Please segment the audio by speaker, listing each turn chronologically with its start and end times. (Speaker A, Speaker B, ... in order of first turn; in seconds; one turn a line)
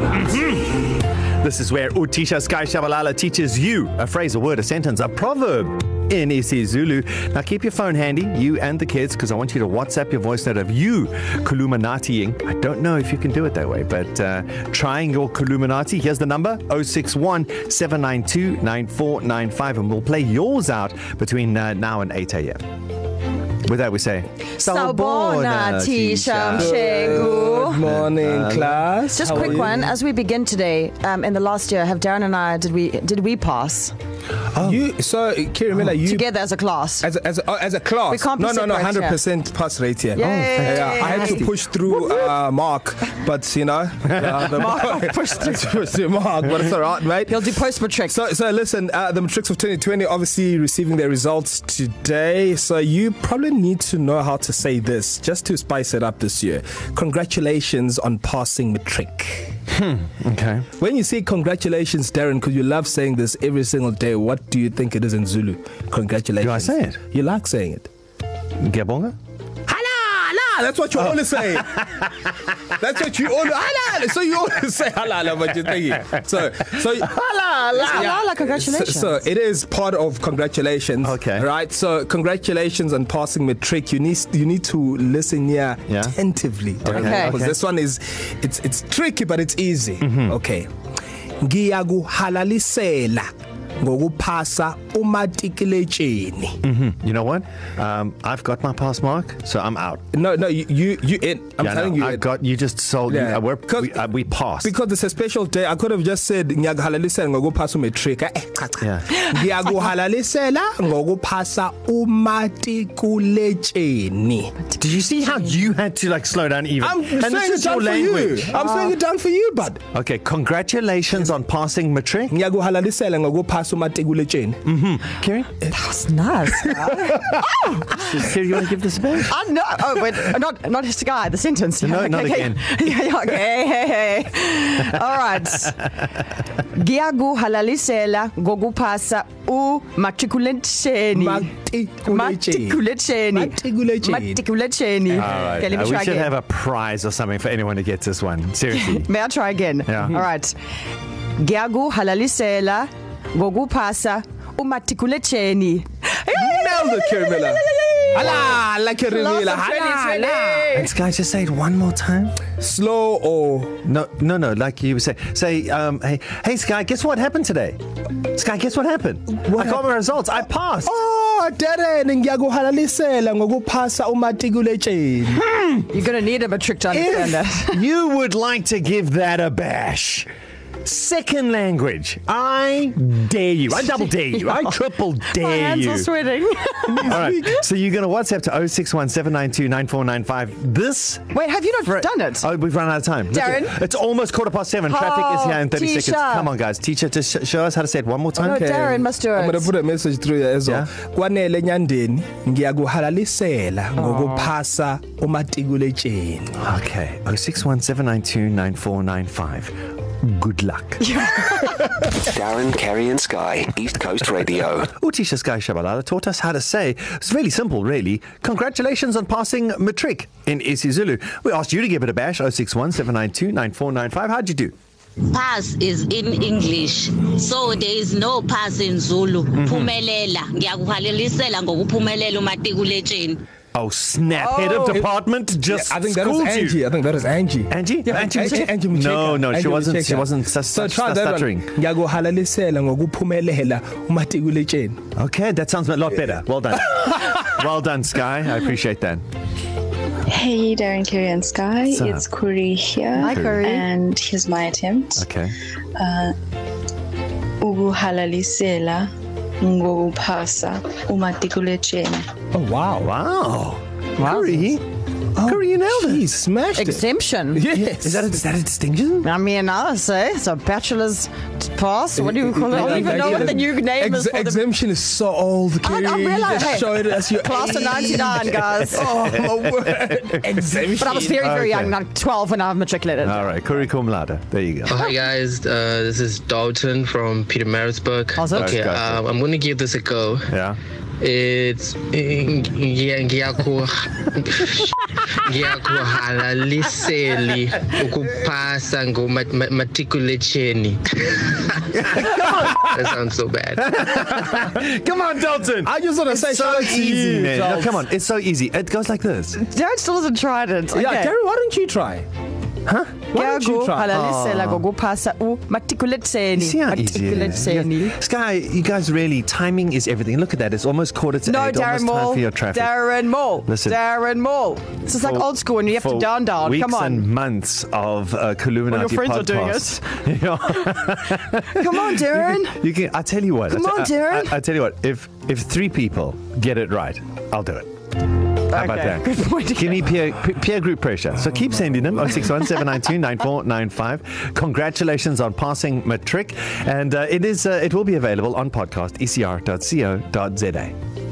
Speaker A: 0.2-22.6
Speaker A: 23.6-27.3
Speaker B: 24.6-27.8
Speaker C: 26.6-29.9
Speaker A: 27.8-29.7
Speaker B: 29.1-33.9
Speaker C: 34.6-36.2
Speaker B: 36.0-37.1
Speaker C: 37.0-47.5
Speaker B: 38.1-39.2
Speaker B: 40.1-42.2
Speaker A: 40.2-41.3
Speaker B: 44.3-45.8
Speaker B: 47.3-48.2
Speaker C: 48.1-59.5
Speaker A: 59.7-60.6
Speaker C: 60.8-67.9
Speaker A: 66.4-67.0
Speaker A: 68.6-69.1
Speaker C: 69.7-72.0
Speaker C: 72.7-77.2
Speaker A: 77.2-78.1
Speaker C: 77.7-90.7
Speaker B: 77.7-79.2
Speaker A: 81.0-81.5
Speaker A: 85.9-86.2
Speaker A: 86.8-87.5
Speaker B: 86.9-87.3
Speaker A: 90.0-90.3
Speaker C: 91.4-96.6
Speaker A: 96.6-100.0
Speaker C: 100.1-102.2
Speaker A: 101.6-104.7
Speaker C: 103.1-104.0
Speaker C: 104.6-114.5
Speaker A: 108.8-109.1
Speaker A: 114.8-118.5
Speaker C: 116.8-119.8
Speaker B: 118.5-119.0
Speaker A: 119.9-122.3
Speaker C: 122.3-124.6
Speaker A: 124.6-125.5
Speaker B: 125.7-128.0
Speaker A: 127.9-129.3
Speaker B: 129.2-135.8
Speaker A: 131.8-132.7
Speaker B: 136.7-141.5
Speaker C: 141.1-144.4
Speaker B: 142.1-146.3
Speaker A: 145.2-149.1
Speaker B: 148.8-150.5
Speaker A: 149.8-150.2
Speaker B: 151.4-160.9
Speaker C: 156.3-157.6
Speaker C: 158.1-160.7
Speaker A: 160.7-162.3
Speaker C: 162.6-163.8
Speaker A: 163.8-170.9
Speaker C: 169.5-169.8
Speaker C: 170.8-175.4
Speaker A: 175.5-175.8
Speaker B: 175.9-177.8
Speaker A: 176.9-180.3
Speaker A: 180.8-186.1
Speaker B: 185.3-187.2
Speaker A: 186.9-198.6
Speaker B: 191.3-192.5
Speaker B: 193.3-193.7
Speaker B: 194.9-196.5
Speaker B: 198.3-199.7
Speaker C: 198.5-206.5
Speaker A: 200.6-200.9
Speaker B: 204.0-204.5
Speaker A: 206.6-211.2
Speaker B: 211.1-211.8
Speaker D: 212.3-214.8
Speaker A: 214.8-224.7
Speaker E: 225.3-233.4
Speaker A: 229.5-229.9
Speaker A: 233.7-236.8
Speaker B: 234.4-235.0
Speaker C: 235.7-245.0
Speaker A: 237.7-241.7
Speaker A: 245.2-249.2
Speaker F: 250.3-255.2
Speaker A: 251.9-252.2
Speaker B: 253.2-253.9
Speaker A: 253.2-253.6
Speaker A: 255.2-255.5
Speaker F: 255.9-256.3
Speaker F: 257.6-259.1
Speaker F: 259.6-262.3
Speaker C: 262.5-263.1
Speaker A: 262.9-264.8
Speaker B: 264.2-264.7
Speaker C: 265.4-268.3
Speaker A: 265.4-266.3
Speaker B: 266.8-267.6
Speaker A: 267.7-269.3
Speaker B: 269.2-274.6
Speaker C: 272.1-281.4
Speaker A: 272.7-273.5
Speaker B: 275.8-279.1
Speaker A: 278.7-280.6
Speaker B: 281.0-283.4
Speaker A: 281.3-281.9
Speaker A: 283.2-285.0
Speaker G: 284.9-290.5
Speaker B: 288.4-288.8
Speaker A: 288.5-289.2
Speaker A: 290.5-290.8
Speaker G: 291.2-301.7
Speaker A: 301.9-303.1
Speaker G: 302.2-304.2
Speaker A: 303.8-309.6
Speaker C: 305.8-308.0
Speaker B: 309.7-311.3
Speaker C: 310.9-312.2
Speaker A: 312.9-313.2
Speaker C: 313.3-314.1
Speaker B: 313.3-318.1
Speaker A: 314.1-314.8
Speaker A: 316.5-323.1
Speaker B: 321.4-327.3
Speaker A: 323.6-324.0
Speaker A: 325.1-337.9
Speaker B: 328.9-330.0
Speaker B: 331.7-332.8
Speaker B: 333.7-334.5
Speaker B: 338.7-340.1
Speaker A: 338.7-350.9